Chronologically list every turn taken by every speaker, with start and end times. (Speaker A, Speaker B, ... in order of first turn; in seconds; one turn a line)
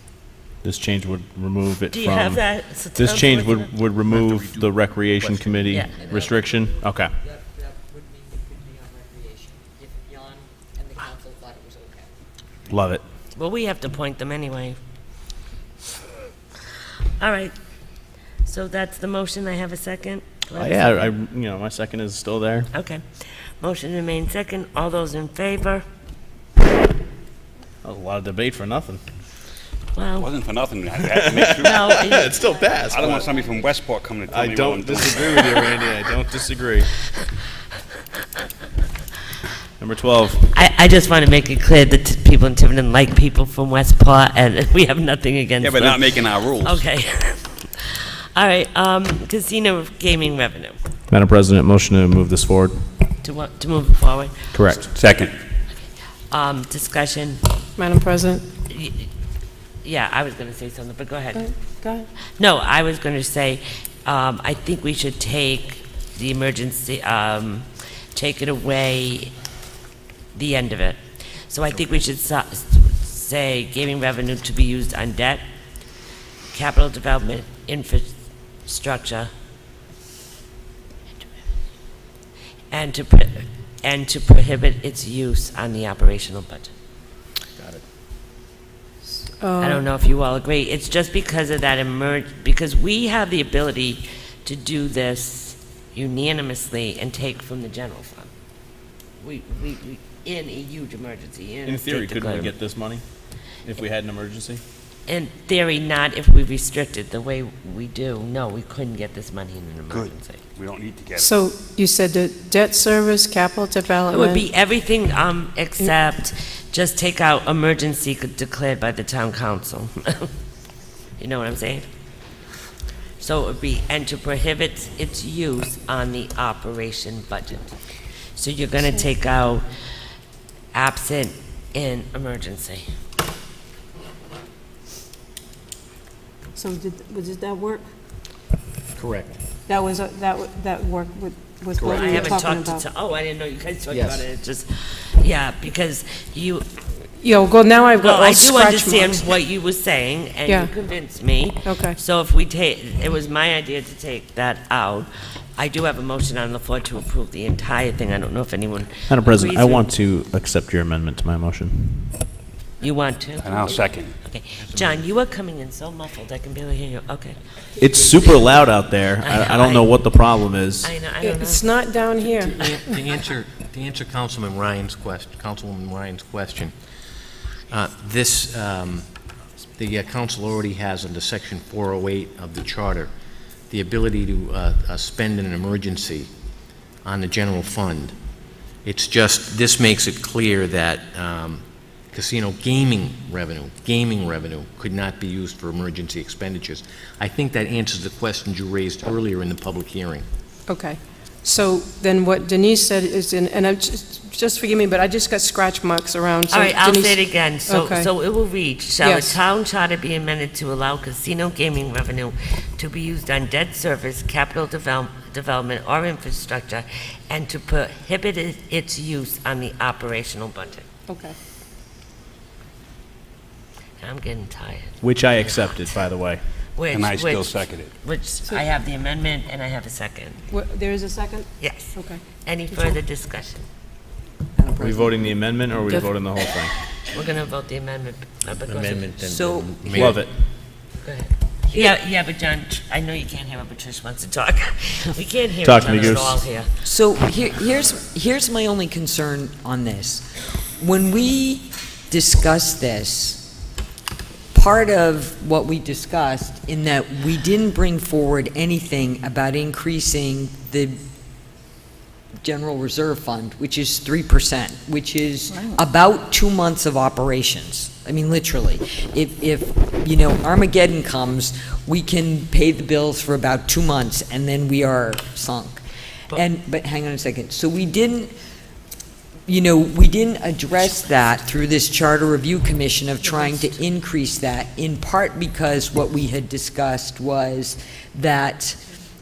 Speaker A: 0.6-7.1
Speaker B: 1.9-3.7
Speaker C: 4.1-4.7
Speaker C: 5.2-5.5
Speaker B: 5.7-6.1
Speaker D: 10.9-12.0
Speaker A: 12.7-13.0
Speaker B: 13.3-14.8
Speaker B: 17.2-17.5
Speaker B: 18.4-21.1
Speaker A: 20.6-22.7
Speaker B: 22.7-25.8
Speaker A: 27.8-29.0
Speaker B: 29.9-30.3
Speaker E: 30.2-32.0
Speaker A: 31.1-33.3
Speaker B: 31.6-32.4
Speaker E: 32.9-35.8
Speaker A: 34.3-36.9
Speaker A: 39.8-40.5
Speaker B: 40.5-50.8
Speaker E: 45.6-46.9
Speaker A: 51.1-52.8
Speaker B: 53.2-54.8
Speaker A: 54.5-54.9
Speaker E: 54.8-55.3
Speaker B: 56.3-57.4
Speaker F: 57.8-58.5
Speaker B: 58.7-59.1
Speaker B: 59.8-61.5
Speaker F: 61.4-62.1
Speaker B: 62.4-69.3
Speaker B: 70.3-75.4
Speaker B: 76.5-78.1
Speaker B: 78.7-79.3
Speaker B: 82.7-86.7
Speaker C: 87.6-87.8
Speaker F: 89.4-89.8
Speaker B: 89.6-98.3
Speaker B: 99.2-102.5
Speaker A: 101.7-103.0
Speaker A: 103.6-104.6
Speaker B: 105.1-110.4
Speaker E: 109.9-111.3
Speaker F: 111.2-114.5
Speaker B: 114.1-120.3
Speaker B: 121.2-121.9
Speaker B: 123.2-127.7
Speaker B: 128.3-129.7
Speaker B: 130.7-132.8
Speaker G: 136.6-137.8
Speaker C: 139.0-139.4
Speaker G: 139.7-142.8
Speaker C: 141.8-142.3
Speaker B: 141.8-146.7
Speaker C: 143.9-144.2
Speaker F: 147.2-149.3
Speaker B: 148.0-159.9
Speaker F: 150.5-150.7
Speaker F: 151.7-152.0
Speaker A: 159.1-162.1
Speaker B: 162.8-167.4
Speaker E: 163.4-164.2
Speaker C: 164.6-165.1
Speaker A: 167.8-170.9
Speaker B: 169.2-170.1
Speaker B: 170.8-171.9
Speaker F: 171.2-172.7
Speaker C: 172.3-176.8
Speaker C: 177.7-179.1
Speaker C: 179.8-183.1
Speaker C: 183.7-186.3
Speaker C: 187.0-188.2
Speaker C: 188.8-200.2
Speaker F: 200.7-208.1
Speaker B: 206.5-220.8
Speaker F: 209.0-209.4
Speaker F: 221.1-221.3
Speaker B: 224.0-225.9
Speaker A: 225.0-226.4
Speaker B: 226.8-230.4
Speaker E: 226.9-227.9
Speaker F: 230.5-231.1
Speaker B: 231.6-233.7
Speaker D: 234.6-235.2
Speaker A: 234.8-236.7
Speaker B: 237.1-239.1
Speaker C: 238.5-240.2
Speaker D: 239.2-240.1
Speaker A: 239.9-240.3
Speaker B: 241.0-246.7
Speaker A: 245.7-246.4
Speaker D: 246.8-253.4
Speaker D: 254.5-261.0
Speaker D: 262.4-275.8
Speaker D: 276.3-278.3
Speaker D: 279.5-288.8